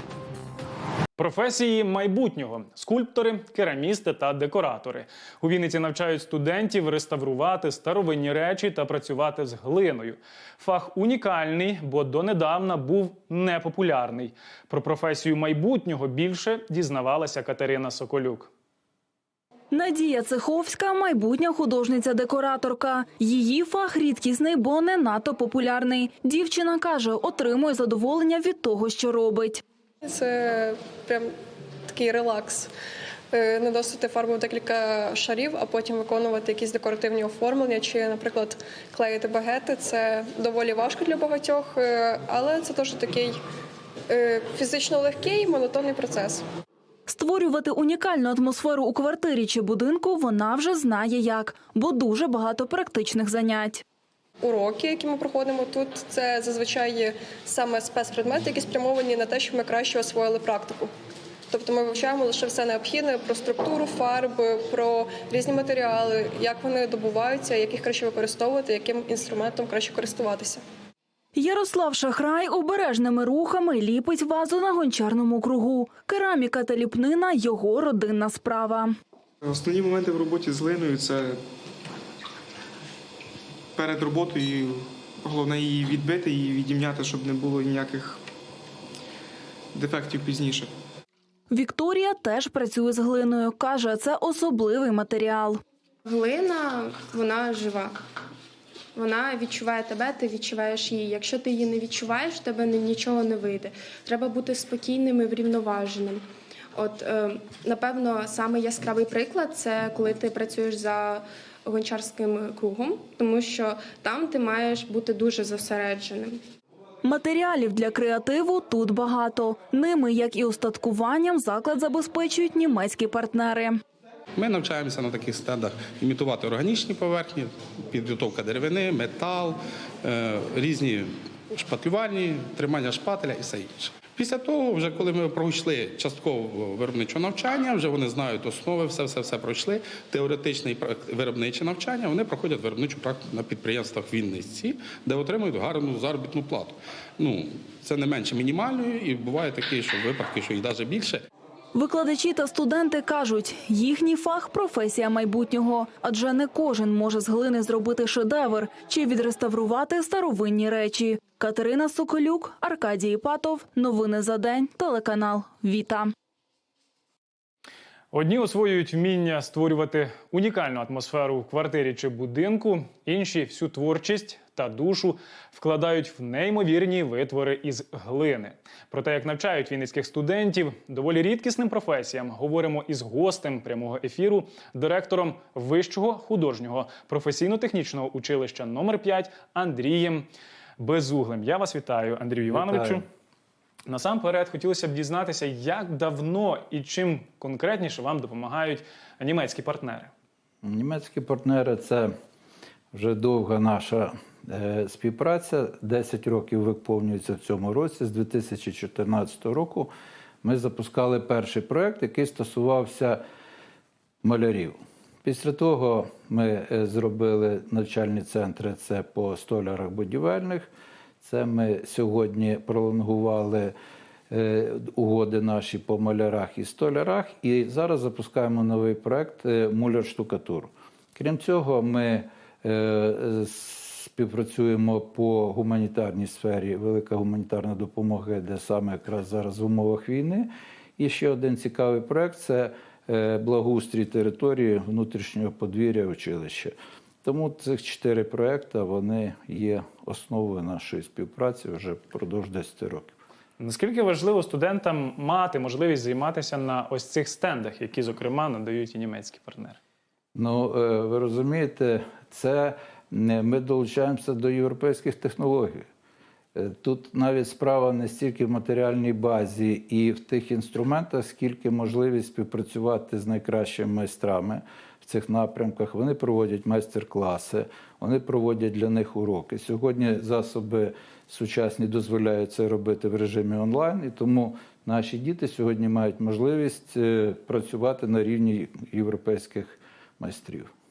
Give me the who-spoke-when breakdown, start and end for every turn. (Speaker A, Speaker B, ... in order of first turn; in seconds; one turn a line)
Speaker A: 1.2-18.5
Speaker B: 19.7-29.6
Speaker C: 30.0-31.3
Speaker C: 31.9-32.7
Speaker C: 33.3-43.4
Speaker C: 44.1-46.4
Speaker B: 47.1-53.8
Speaker C: 54.4-60.9
Speaker C: 61.5-70.6
Speaker B: 71.3-79.0
Speaker D: 79.4-81.4
Speaker D: 83.8-88.2
Speaker D: 89.7-90.7
Speaker B: 91.5-95.6
Speaker E: 96.1-98.0
Speaker E: 98.9-116.4
Speaker B: 117.0-123.8
Speaker F: 124.4-151.2
Speaker B: 151.8-166.1
Speaker A: 168.1-190.3
Speaker A: 190.8-193.0
Speaker G: 192.5-193.0
Speaker A: 193.9-200.1
Speaker G: 200.6-202.1
Speaker G: 202.9-209.9
Speaker G: 210.4-213.2
Speaker G: 214.2-220.7
Speaker G: 221.2-223.7
Speaker G: 224.3-253.2
Speaker A: 253.6-259.8
Speaker G: 260.3-265.8
Speaker G: 266.5-290.7